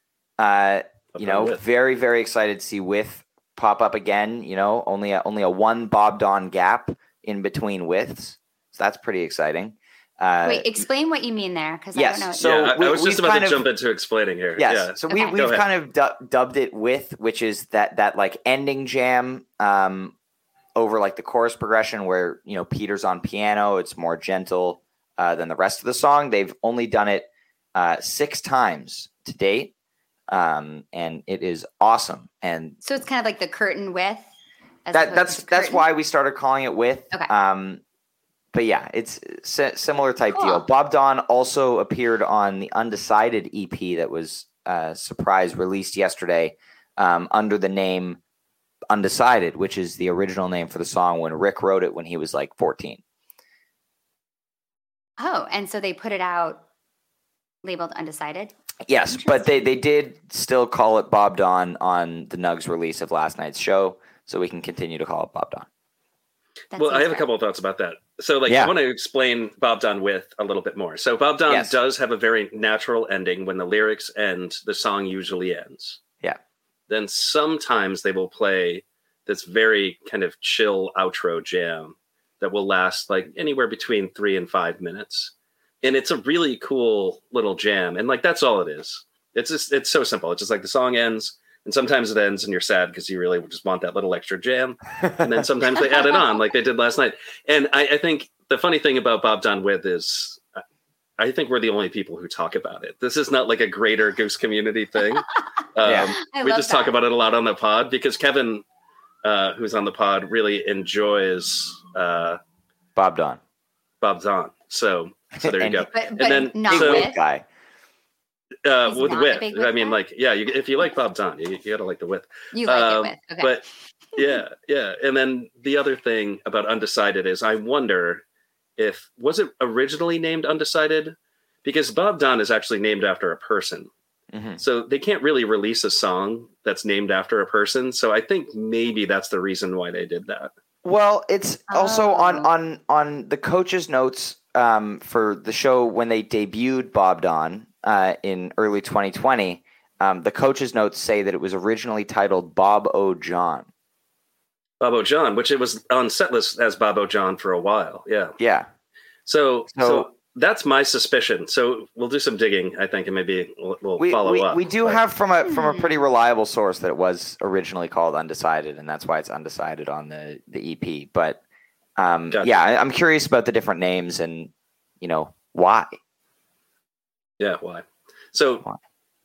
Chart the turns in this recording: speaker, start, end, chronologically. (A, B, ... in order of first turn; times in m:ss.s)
0:00.4-0:10.8 A
0:01.1-0:01.6 B
0:10.4-0:12.5 C
0:11.9-0:13.6 A
0:12.4-0:15.6 B
0:14.6-0:20.1 A
0:15.1-0:15.4 C
0:20.8-0:29.7 A
0:30.3-0:32.8 A
0:32.8-0:34.3 C
0:34.8-0:35.8 C
0:34.9-0:37.8 A
0:38.5-0:48.2 A
0:40.3-0:40.6 C
0:48.9-0:53.0 A
0:55.2-0:56.6 C
0:57.6-0:58.5 C
0:58.9-1:05.7 A
0:59.1-0:59.4 C
1:06.7-1:07.2 C
1:06.8-1:16.0 B
1:08.5-1:08.7 A
1:11.5-1:11.7 A
1:16.9-1:40.4 B
1:41.2-1:48.6 B
1:45.8-1:46.2 A
1:46.2-1:46.9 C
1:49.2-1:52.4 B
1:53.0-1:53.4 A
1:54.0-1:57.1 B
1:55.4-1:55.9 A
1:55.9-1:57.2 C
1:56.7-1:57.4 A
1:58.6-2:08.2 B
1:58.8-2:00.0 C
2:02.5-2:03.5 C
2:08.8-2:13.9 B
2:14.3-2:14.6 A
2:14.6-2:20.5 B
2:20.8-2:33.7 A
2:21.7-2:22.5 C
2:34.8-2:38.3 B
2:38.4-2:38.7 A
2:39.2-2:45.0 B
2:39.7-2:40.1 A
2:44.0-2:51.4 A
2:45.4-2:46.0 C
2:52.0-2:56.0 A
2:57.4-2:58.6 B